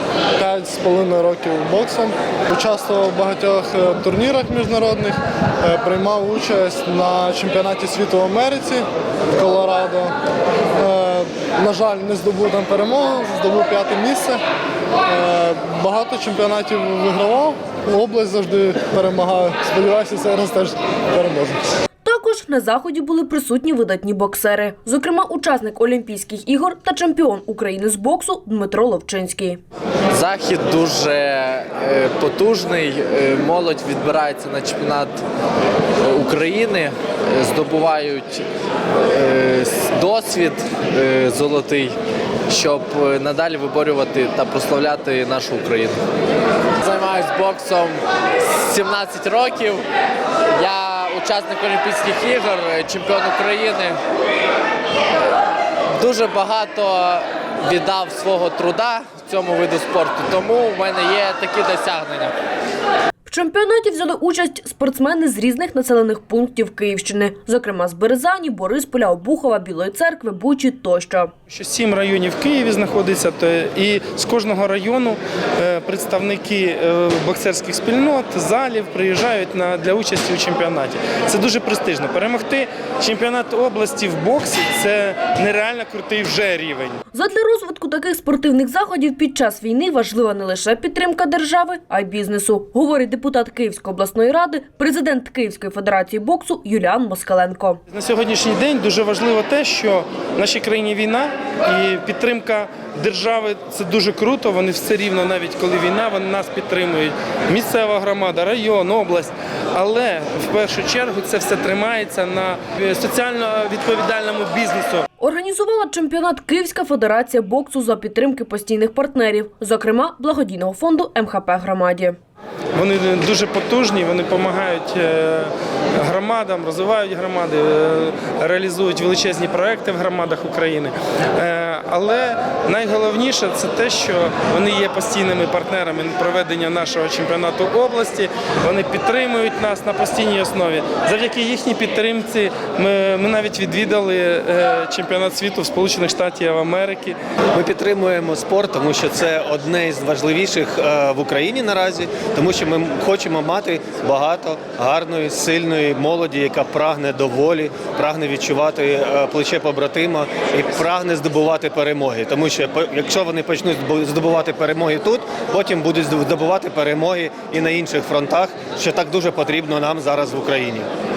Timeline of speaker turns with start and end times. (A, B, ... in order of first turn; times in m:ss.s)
0:00.4-0:10.1 A
0:10.8-0:14.4 A
0:15.0-0:21.6 A
0:22.0-0:29.6 B
0:30.1-0:35.2 C
0:36.0-0:38.4 C
0:39.0-0:42.0 C
0:42.5-0:46.0 C
0:46.8-0:49.9 C
0:50.5-0:54.0 C
0:56.0-1:02.3 C
1:03.2-1:11.3 B
1:11.5-1:27.0 D
1:27.1-1:37.8 B
1:37.9-1:55.0 D
1:55.2-2:02.2 B
2:02.7-2:27.2 D
2:27.5-2:50.9 E